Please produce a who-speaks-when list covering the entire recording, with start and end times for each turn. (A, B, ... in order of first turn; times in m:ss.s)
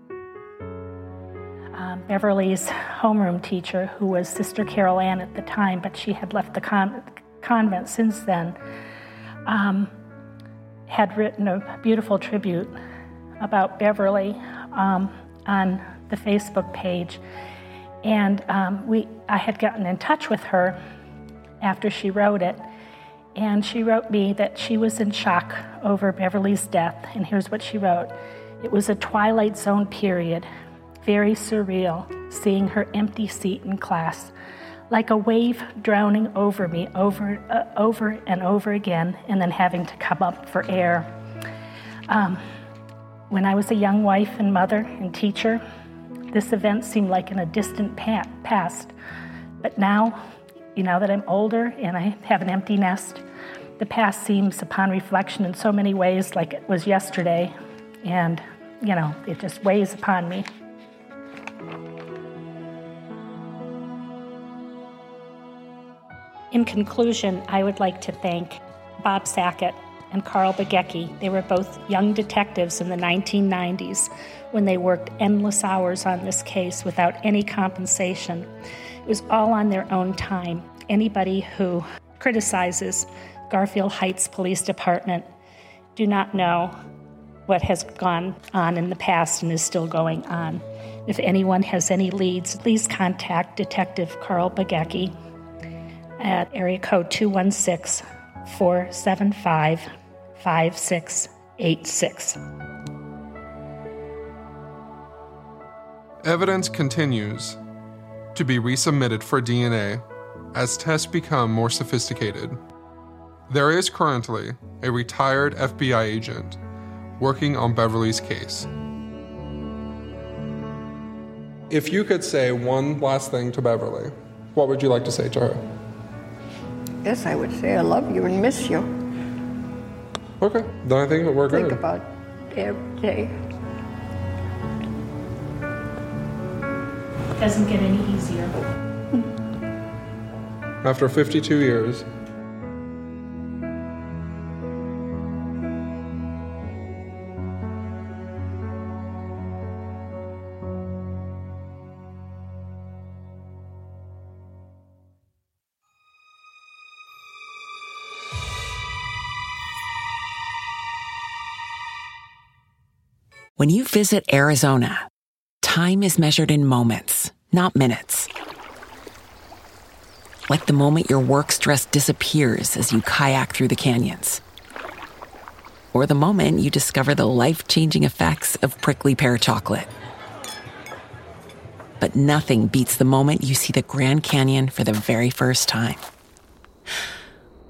0:01.7-0:08.6 A
0:09.4-0:09.9 A
0:10.9-0:12.7 A
0:13.4-0:17.2 A
0:18.0-0:20.8 A
0:21.6-0:22.7 A
0:23.4-0:30.5 A
0:31.0-0:34.3 A
0:34.9-0:41.1 A
0:42.1-0:42.4 A
0:43.3-0:45.6 A
0:46.3-0:48.9 A
0:49.6-0:50.2 A
0:50.8-0:53.2 A
0:53.8-1:00.4 A
1:06.5-1:18.5 A
1:19.0-1:25.3 A
1:26.0-1:26.7 A
1:27.5-1:35.1 A
1:36.2-1:42.4 A
1:46.2-1:47.6 B
1:48.3-1:52.6 B
1:53.5-1:56.6 B
1:57.2-1:58.7 B
2:01.7-2:05.6 B
2:07.0-2:08.9 C
2:10.4-2:11.8 B
2:11.5-2:13.3 C
2:17.4-2:18.5 A
2:20.8-2:22.0 B
2:43.6-2:45.1 D
2:45.6-2:48.3 D
2:50.5-2:54.4 D
2:55.9-2:59.9 D
3:02.0-3:06.0 D